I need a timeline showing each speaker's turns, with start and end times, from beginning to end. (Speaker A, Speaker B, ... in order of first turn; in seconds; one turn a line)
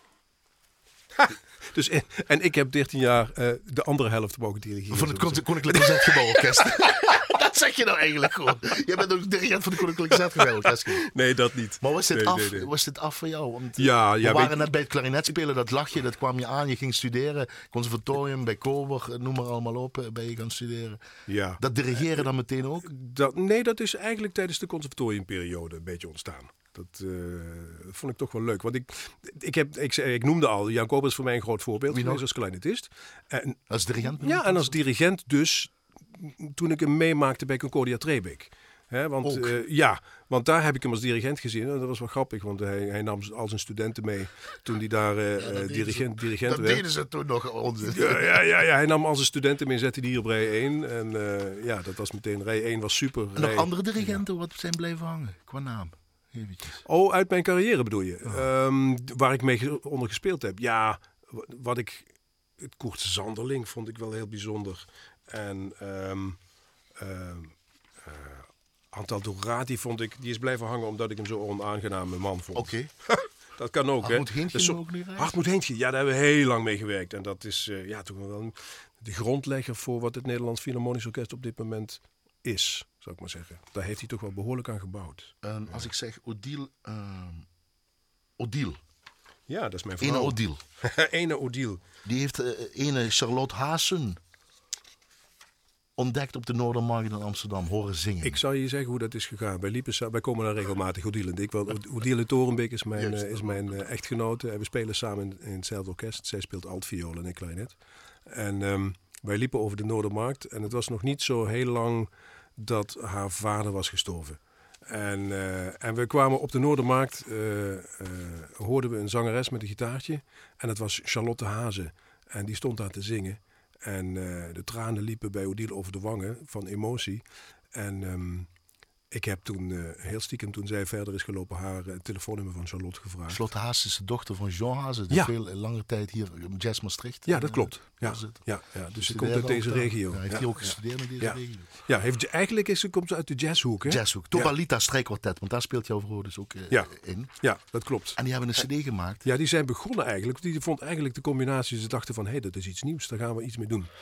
Speaker A: 1.2-7.1
Speaker B: 4.9-11.1
Speaker A: 10.1-10.4
Speaker A: 10.9-12.7
Speaker B: 11.8-21.0
Speaker A: 13.8-14.7
Speaker A: 21.3-22.3
Speaker B: 21.6-22.9
Speaker A: 22.8-46.9
Speaker B: 31.9-32.2
Speaker B: 33.7-34.8
Speaker B: 39.2-39.6
Speaker B: 45.4-48.4
Speaker A: 47.8-54.2
Speaker B: 53.4-56.8
Speaker A: 56.8-66.4
Speaker A: 67.0-85.9
Speaker B: 72.5-72.9
Speaker B: 74.0-75.4
Speaker B: 85.4-87.5
Speaker B: 88.4-88.8
Speaker A: 89.5-91.8
Speaker B: 90.0-90.6
Speaker B: 92.0-94.2
Speaker B: 96.0-98.4
Speaker A: 98.2-128.5
Speaker B: 103.0-103.8
Speaker A: 129.1-133.4
Speaker B: 133.3-141.7
Speaker A: 137.3-144.5
Speaker B: 143.8-147.3
Speaker A: 146.7-148.2
Speaker B: 148.2-149.2
Speaker A: 149.2-153.9